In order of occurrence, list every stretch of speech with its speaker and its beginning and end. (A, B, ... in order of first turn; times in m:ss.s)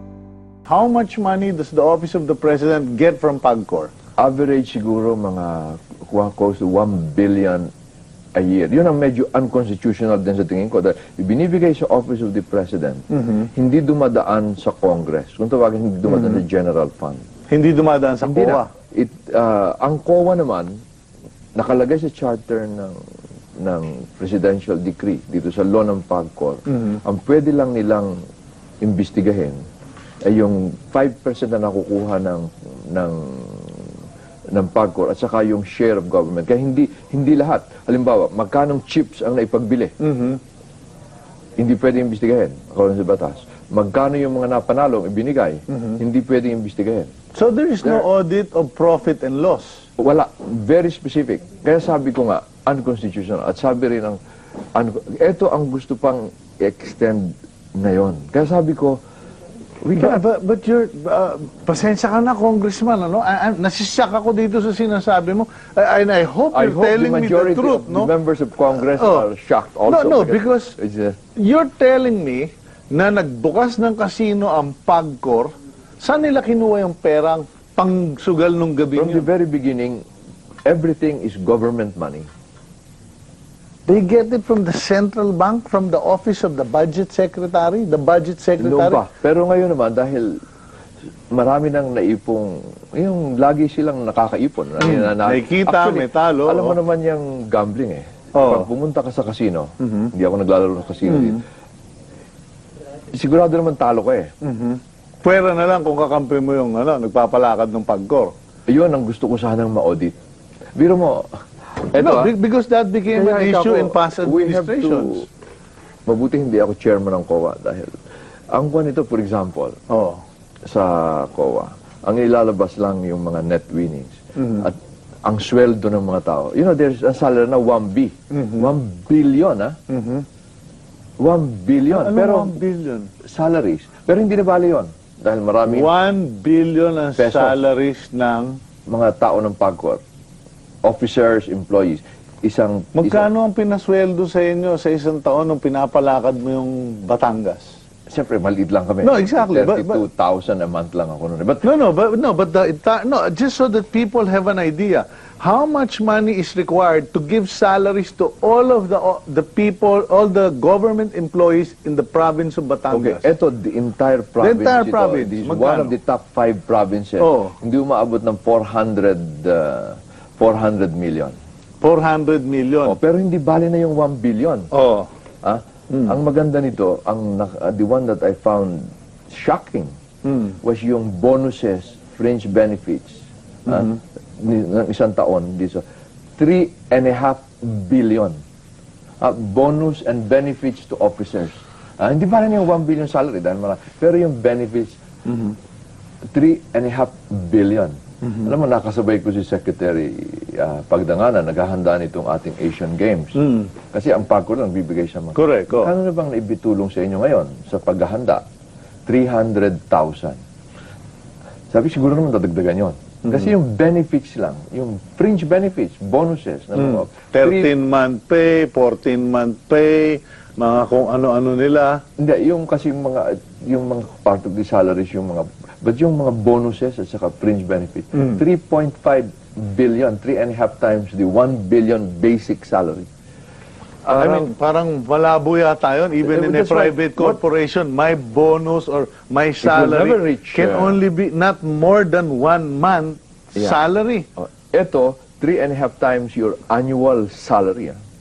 0:00.7-0:03.9 A
0:04.2-0:07.7 B
0:08.3-0:17.2 B
0:16.1-0:16.4 A
0:17.5-0:18.7 A
0:18.2-0:20.7 B
0:21.6-0:23.0 B
0:23.6-0:28.1 B
0:28.8-0:29.6 B
0:30.2-0:33.9 B
0:34.5-0:39.9 B
0:40.0-0:40.4 A
0:41.6-0:47.1 B
0:47.3-0:49.9 A
0:50.0-0:54.2 B
0:54.7-0:59.0 B
0:59.8-1:00.2 B
1:00.0-1:08.1 A
1:06.5-1:11.2 B
1:08.7-1:09.3 A
1:09.9-1:10.7 A
1:11.3-1:19.3 A
1:18.9-1:20.0 B
1:20.6-1:22.3 B
1:23.9-1:29.0 A
1:28.6-1:30.3 B
1:31.3-1:41.4 B
1:34.8-1:36.8 A
1:38.3-1:38.7 A
1:39.8-1:40.1 A
1:41.0-1:41.4 A
1:43.1-1:44.3 B
1:44.4-1:48.3 A
1:48.7-1:50.1 B
1:50.8-1:51.3 B
1:51.9-1:52.3 B
1:52.0-1:55.3 A
1:53.1-1:55.2 B
1:56.1-1:58.0 B
1:58.5-1:59.8 B
1:59.9-2:00.2 A
2:00.6-2:09.7 B
2:04.4-2:04.6 A
2:08.3-2:08.7 A
2:09.9-2:10.2 A
2:11.2-2:12.6 B
2:11.9-2:13.1 A
2:13.2-2:15.9 B
2:15.7-2:18.6 A
2:17.2-2:17.6 B
2:18.9-2:20.0 B
2:20.8-2:23.3 B
2:22.9-2:27.8 A
2:28.1-2:31.6 B
2:29.0-2:30.0 A
2:31.6-2:43.3 A
2:42.9-2:51.3 B
2:44.4-2:46.0 A
2:47.2-2:47.5 A
2:51.8-2:53.0 A
2:52.8-2:54.7 B
2:54.7-2:55.1 A
2:55.4-2:59.9 B
3:00.2-3:00.6 A
3:00.6-3:05.8 B
3:03.7-3:04.0 A
3:06.4-3:08.4 B
3:09.2-3:15.0 B
3:15.3-3:15.6 A
3:16.3-3:23.4 B
3:23.4-3:23.7 A
3:23.9-3:28.4 B
3:25.3-3:25.9 A
3:29.1-3:30.4 B
3:31.7-3:37.7 B
3:33.2-3:33.5 A
3:36.8-3:42.0 A
3:42.2-3:53.1 B
3:48.2-3:48.4 A
3:54.0-3:54.5 B
3:54.1-4:04.3 A
3:56.2-3:57.4 B
3:59.6-4:01.0 B
4:04.4-4:08.0 B